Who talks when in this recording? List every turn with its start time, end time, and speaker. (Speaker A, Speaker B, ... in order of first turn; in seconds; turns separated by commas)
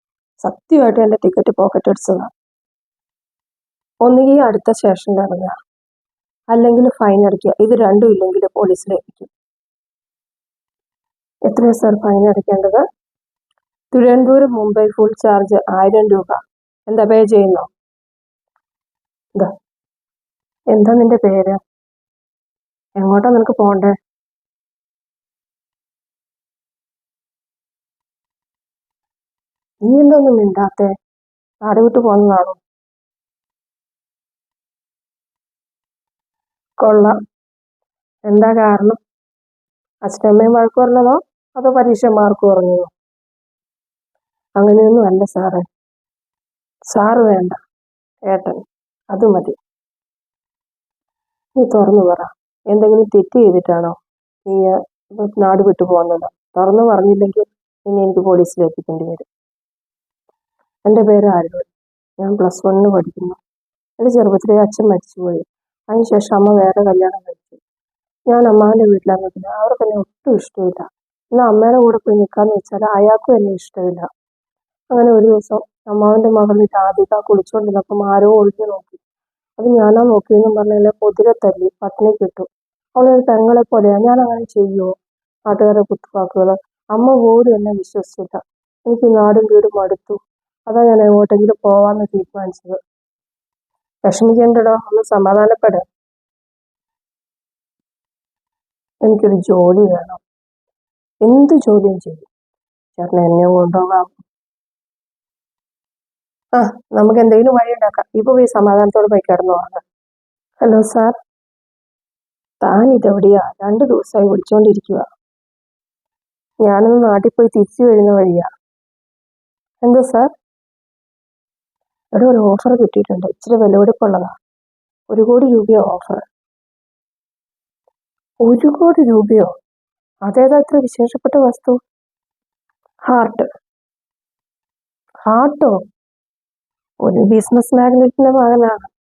Speaker A: 0.4-2.3, Speaker A: 4.0-5.5, Speaker A: 6.5-9.3, Speaker A: 11.5-12.8, Speaker A: 13.9-17.7, Speaker A: 20.7-21.6, Speaker A: 23.0-23.9, Speaker A: 29.9-30.9, Speaker A: 31.6-32.6, Speaker A: 36.8-37.2, Speaker A: 38.3-39.0, Speaker A: 40.0-42.9, Speaker A: 44.6-45.7, Speaker A: 46.9-47.6, Speaker A: 48.3-49.6, Speaker A: 51.6-59.3, Speaker A: 60.9-61.7, Speaker A: 62.2-63.4, Speaker A: 64.0-67.6, Speaker A: 68.3-74.1, Speaker A: 74.9-79.0, Speaker A: 79.6-84.9, Speaker A: 85.5-92.8, Speaker A: 94.0-95.8, Speaker A: 99.0-100.2, Speaker A: 101.2-102.3, Speaker A: 103.0-104.2, Speaker A: 106.5-109.8, Speaker A: 110.6-111.2, Speaker A: 112.6-115.1, Speaker A: 116.6-118.5, Speaker A: 119.8-120.3, Speaker A: 122.2-124.3, Speaker A: 125.1-126.2, Speaker A: 128.4-129.5, Speaker A: 130.3-131.8, Speaker A: 133.1-133.5, Speaker A: 135.2-135.8, Speaker A: 137.0-138.9